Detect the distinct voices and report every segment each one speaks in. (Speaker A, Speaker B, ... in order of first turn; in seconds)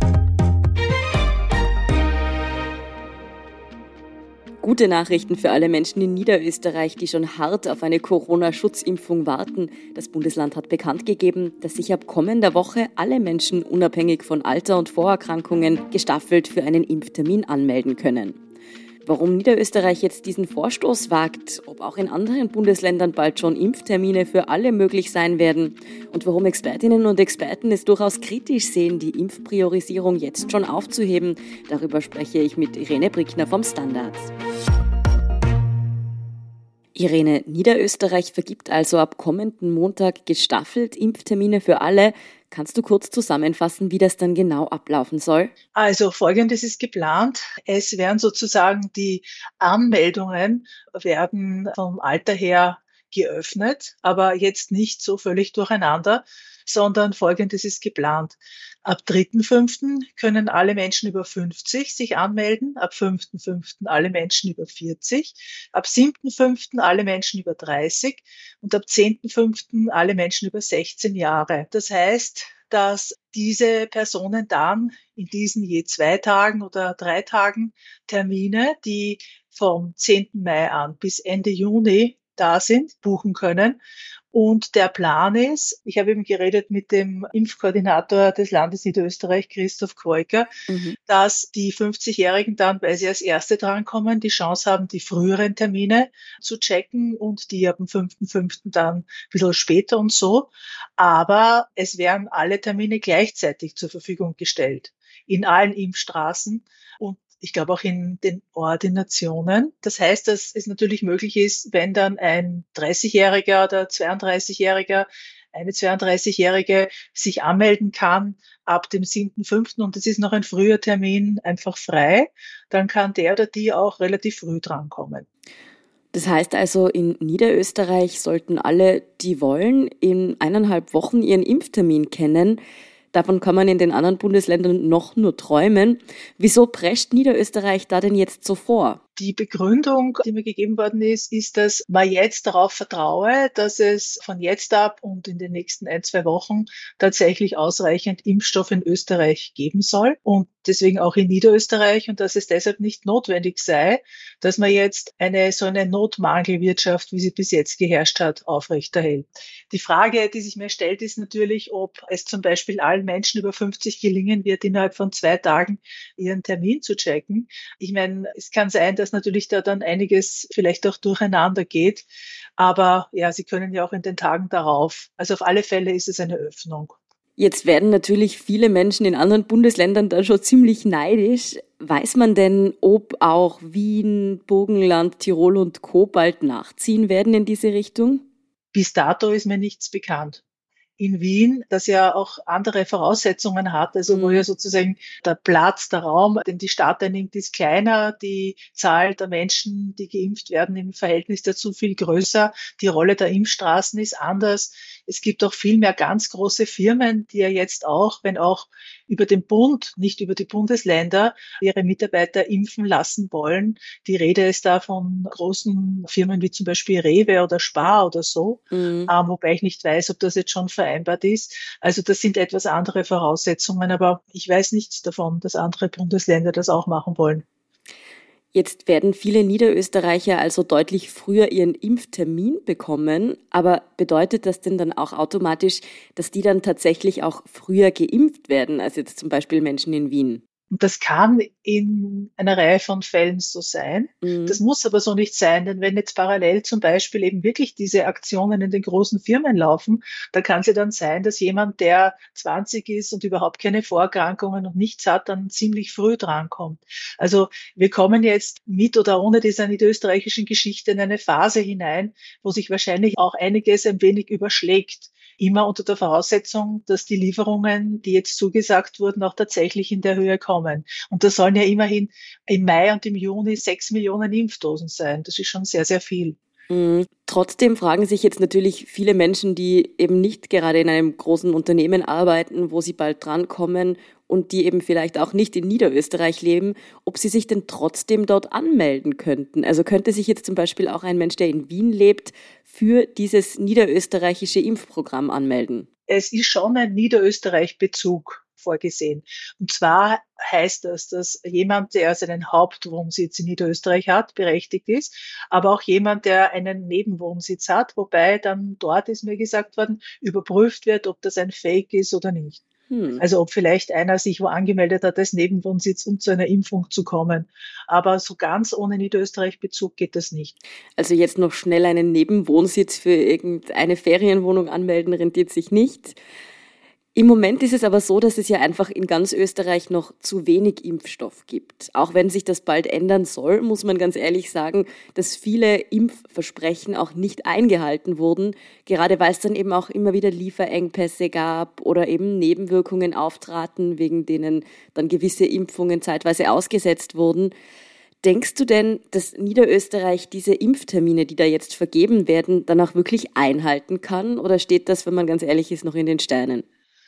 Speaker A: 4.6-18.4, 19.0-34.3, 36.9-45.5, 90.7-91.0, 126.1-132.6, 133.1-139.0, 177.4-188.2, 194.1-194.4, 218.7-219.1, 228.5-240.4, 244.2-244.6, 276.7-295.9, 312.9-313.2, 321.0-326.2, 327.1-347.5, 348.2-356.6
Speaker B: 45.7-83.8, 84.3-90.5, 91.1-125.2, 139.2-172.1, 172.6-177.0, 188.7-190.4, 191.0-227.4, 240.7-276.4, 296.1-312.6, 313.2-320.5